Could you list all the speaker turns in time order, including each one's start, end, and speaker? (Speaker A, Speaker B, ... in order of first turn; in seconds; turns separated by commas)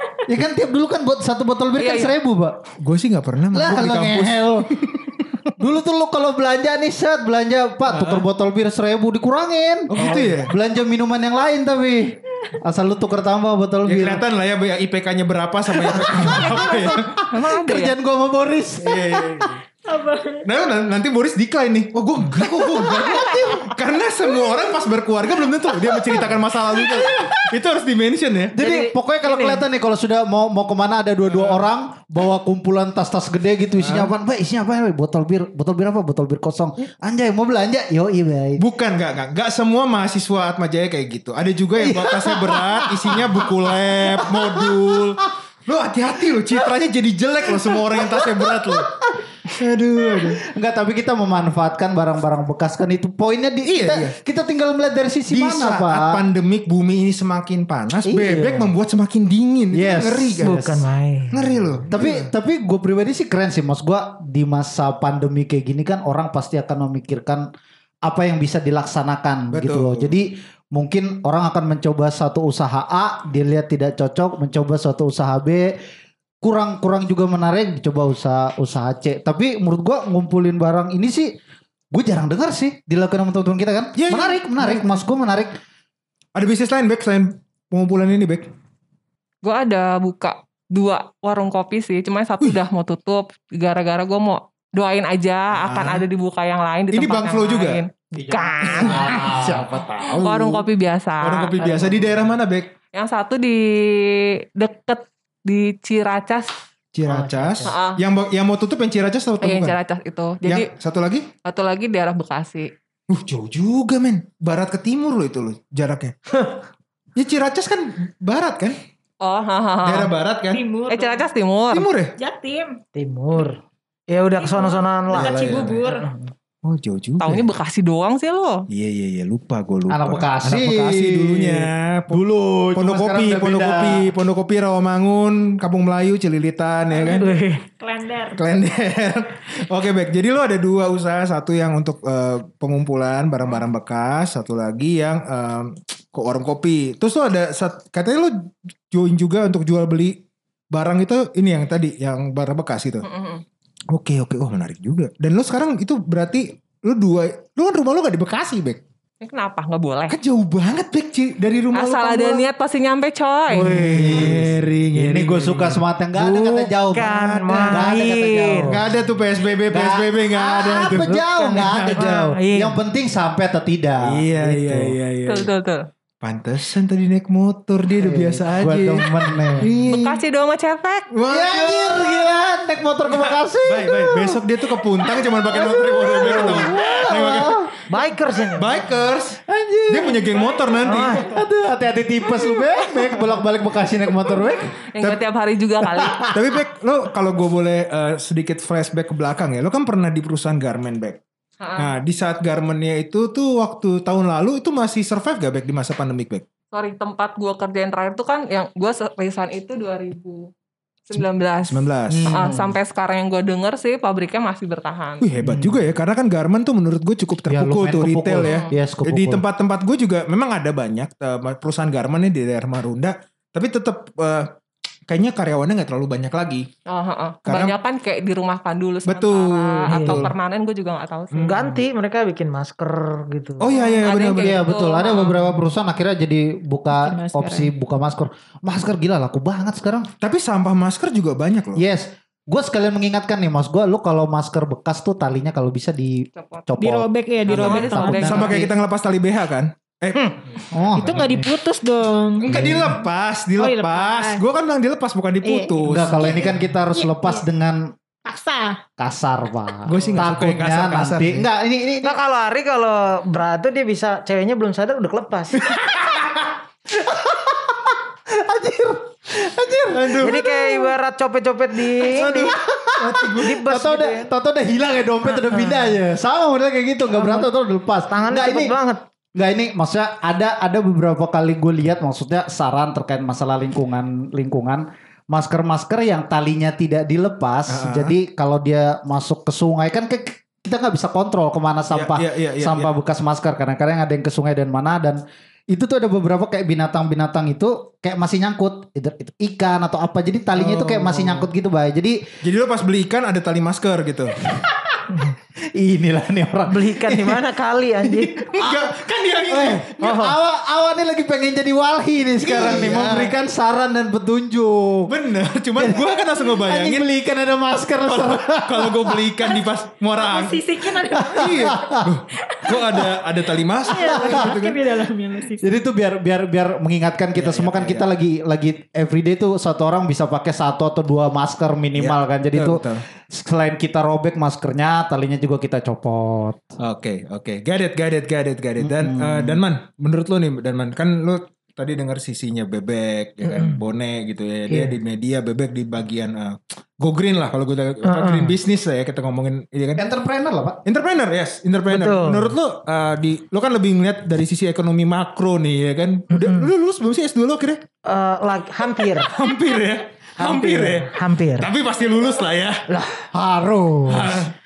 Speaker A: 0.3-2.6, Speaker B: 1.8-2.1, Speaker C: 2.8-5.4, Speaker A: 3.5-4.7, Speaker A: 5.6-14.2, Speaker C: 7.9-8.2, Speaker C: 9.9-10.5, Speaker C: 13.8-17.2, Speaker A: 15.8-19.5, Speaker B: 17.2-17.9, Speaker C: 18.8-19.6, Speaker D: 19.8-20.5, Speaker C: 20.4-28.6, Speaker A: 22.7-23.7, Speaker A: 28.5-38.6, Speaker E: 28.6-29.6, Speaker C: 31.3-31.6, Speaker C: 33.8-34.1, Speaker C: 38.6-48.9, Speaker A: 41.8-45.1, Speaker A: 47.6-49.2, Speaker C: 49.5-50.4, Speaker A: 50.1-56.2, Speaker C: 53.7-54.1, Speaker C: 55.3-60.5, Speaker A: 58.0-58.7, Speaker A: 59.7-60.9, Speaker E: 60.4-61.8, Speaker C: 61.3-62.3, Speaker A: 61.9-67.5, Speaker A: 68.0-75.7, Speaker C: 69.5-70.1, Speaker A: 76.4-81.3, Speaker A: 81.9-85.6, Speaker C: 83.9-85.0, Speaker C: 86.3-88.5, Speaker B: 89.4-99.4, Speaker C: 95.6-96.0, Speaker C: 96.9-97.8, Speaker E: 98.3-99.2, Speaker A: 98.3-100.4, Speaker C: 98.6-100.6, Speaker B: 100.2-101.9, Speaker C: 101.2-102.7, Speaker B: 102.9-106.5, Speaker C: 106.9-109.8, Speaker E: 107.1-107.7, Speaker B: 107.7-108.0, Speaker B: 109.4-110.7, Speaker C: 110.4-111.3, Speaker B: 111.4-112.7, Speaker C: 113.1-116.1, Speaker C: 117.2-118.8, Speaker B: 119.2-120.1, Speaker C: 119.8-120.6, Speaker D: 120.5-121.3, Speaker B: 120.9-121.9, Speaker C: 121.7-122.1, Speaker D: 122.2-122.8, Speaker E: 122.9-126.3, Speaker D: 124.4-126.0, Speaker C: 125.1-125.8, Speaker C: 126.6-127.5, Speaker B: 127.2-128.7, Speaker C: 128.7-132.2, Speaker A: 129.9-134.1, Speaker C: 132.7-137.3, Speaker D: 136.9-138.4, Speaker E: 137.0-137.6, Speaker C: 138.3-150.2, Speaker C: 150.7-153.1, Speaker B: 153.0-153.4, Speaker C: 153.9-158.8, Speaker B: 159.2-160.2, Speaker C: 160.1-162.4, Speaker B: 161.7-163.8, Speaker E: 163.5-164.4, Speaker C: 163.6-165.8, Speaker A: 163.9-168.9, Speaker E: 166.2-168.8, Speaker C: 167.0-167.9, Speaker C: 168.6-172.3, Speaker A: 169.7-174.9, Speaker E: 170.9-172.8, Speaker C: 174.0-175.5, Speaker B: 175.3-175.9, Speaker C: 176.2-180.2, Speaker A: 178.0-179.7, Speaker B: 179.8-181.1, Speaker C: 181.1-182.3, Speaker A: 181.3-187.7, Speaker C: 183.1-187.7, Speaker E: 186.2-186.7, Speaker E: 187.9-188.8, Speaker C: 188.5-191.2, Speaker A: 189.4-194.8, Speaker E: 190.8-191.3, Speaker C: 192.5-193.3, Speaker B: 194.9-196.3, Speaker A: 196.0-196.4, Speaker C: 196.3-201.2, Speaker B: 201.6-201.9, Speaker C: 201.8-206.4, Speaker B: 206.7-210.5, Speaker B: 211.1-215.2, Speaker C: 211.7-212.6, Speaker A: 212.1-212.8, Speaker C: 215.2-224.5, Speaker A: 215.4-215.8, Speaker A: 217.5-219.4, Speaker B: 218.4-218.7, Speaker C: 225.1-226.7, Speaker B: 226.9-231.6, Speaker C: 227.4-227.7, Speaker C: 229.1-230.3, Speaker E: 229.9-230.3, Speaker C: 231.3-231.8, Speaker E: 231.4-233.8, Speaker C: 233.6-234.6, Speaker B: 233.9-235.4, Speaker A: 234.3-240.1, Speaker D: 236.9-237.7, Speaker C: 240.2-241.8, Speaker A: 241.8-248.7, Speaker B: 246.3-246.7, Speaker D: 246.8-248.6, Speaker B: 247.4-248.5, Speaker C: 247.6-250.4, Speaker A: 250.7-251.5, Speaker D: 250.9-252.6, Speaker C: 252.4-256.6, Speaker A: 252.5-253.0, Speaker D: 253.6-254.4, Speaker D: 255.4-257.4, Speaker A: 255.8-257.9, Speaker D: 258.2-258.8, Speaker A: 259.0-262.2, Speaker C: 259.8-261.5, Speaker E: 262.0-265.7, Speaker C: 265.6-265.9, Speaker A: 266.9-270.9, Speaker C: 269.9-270.5, Speaker E: 270.2-272.5, Speaker C: 272.0-273.6, Speaker A: 272.6-278.8, Speaker E: 273.4-274.3, Speaker E: 275.3-275.9, Speaker E: 277.1-277.5, Speaker E: 278.1-279.0, Speaker A: 279.4-302.2, Speaker C: 287.7-288.1, Speaker C: 291.9-292.9, Speaker E: 300.6-301.4, Speaker C: 302.4-304.4, Speaker A: 304.6-305.0, Speaker A: 305.7-307.4, Speaker E: 306.7-308.6, Speaker C: 308.2-310.0, Speaker A: 309.4-315.1, Speaker E: 310.0-310.4, Speaker C: 312.4-313.4, Speaker C: 315.1-317.1, Speaker A: 315.8-319.3, Speaker C: 318.0-320.6, Speaker D: 320.1-323.2, Speaker A: 321.2-322.1, Speaker C: 321.3-324.8, Speaker D: 323.8-325.7, Speaker A: 324.0-324.5, Speaker A: 325.6-336.7, Speaker C: 327.3-328.1, Speaker C: 332.0-333.1, Speaker C: 336.8-350.1, Speaker A: 338.8-339.6, Speaker E: 343.4-343.8, Speaker E: 344.7-345.0, Speaker E: 348.0-348.6, Speaker A: 350.0-350.8, Speaker C: 350.8-357.8, Speaker E: 351.9-352.6, Speaker E: 356.3-356.7, Speaker E: 358.0-359.3, Speaker C: 359.2-362.9, Speaker E: 360.4-361.7, Speaker E: 362.9-363.2, Speaker A: 363.3-364.5, Speaker C: 364.1-364.5